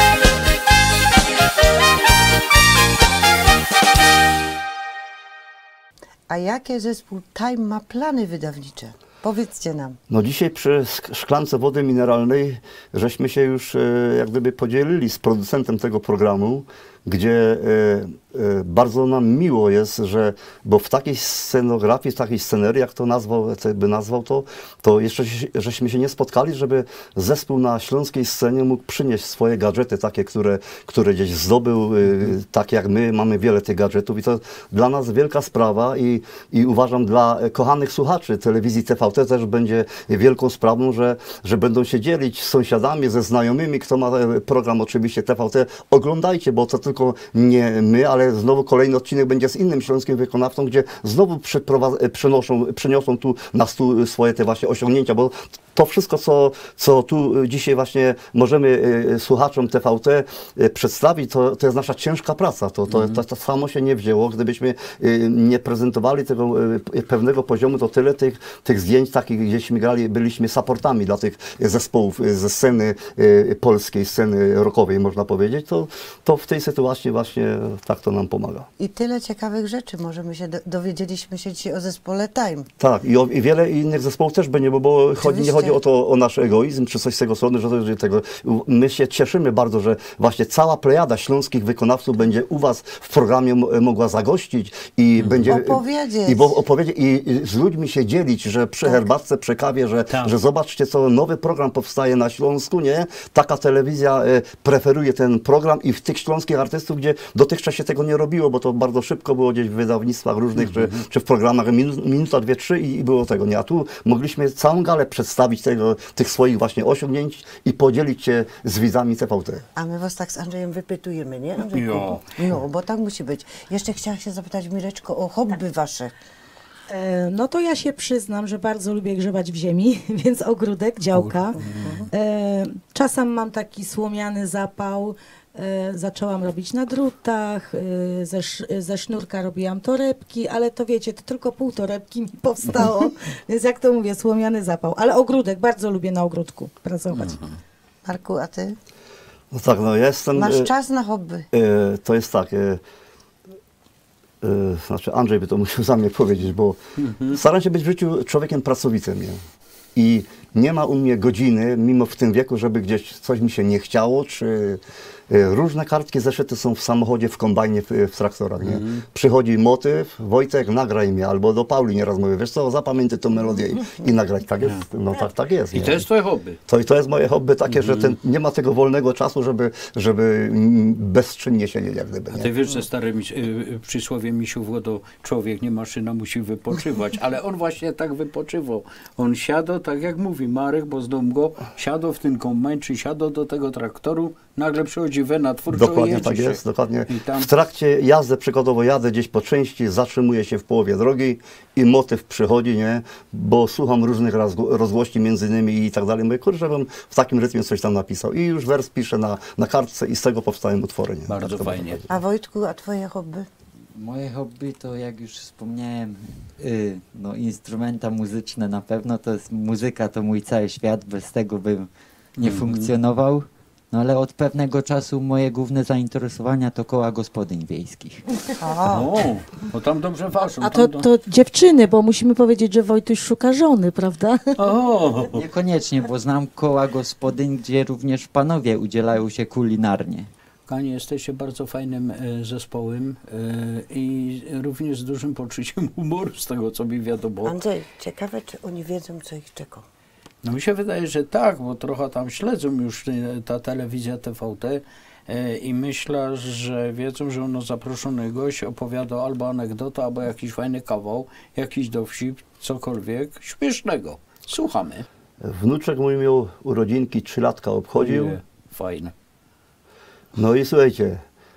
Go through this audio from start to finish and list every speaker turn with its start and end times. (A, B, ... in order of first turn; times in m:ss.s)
0:06.3-0:10.0 A
0:10.1-1:18.7 B
1:02.9-1:03.2 C
1:18.8-1:22.7 A
1:22.8-1:59.7 B
1:25.2-1:25.8 A
1:35.2-1:35.6 C
1:35.5-1:36.5 A
1:50.6-1:51.0 C
1:59.8-2:06.1 A
2:01.6-2:02.2 C
2:06.9-2:11.6 D
2:11.1-2:12.1 C
2:11.7-2:12.1 A
2:12.1-2:27.4 D
2:27.2-2:27.6 C
2:28.1-2:28.8 A
2:29.5-2:30.7 B
2:30.4-2:31.5 A
2:31.5-2:32.8 B
2:34.4-2:39.4 B
2:37.0-2:37.4 C
2:40.0-2:56.0 B
2:48.6-2:49.0 C
2:55.7-2:56.6 C
2:56.7-3:02.5 B
2:57.7-2:58.1 C
3:02.3-3:17.5 C
3:15.7-3:32.0 B
3:31.3-3:32.0 C
3:32.1-3:33.5 A
3:34.0-3:48.2 E
3:42.4-3:42.9 C
3:48.6-3:49.1 A
3:48.9-3:51.1 C
3:50.6-3:54.6 D
3:54.6-3:55.5 C
3:55.3-4:00.3 E
4:00.7-4:07.6 C
4:07.4-4:09.8 A
4:10.4-4:25.1 C
4:25.4-4:28.4 B
4:28.0-4:29.1 C
4:30.4-4:31.2 B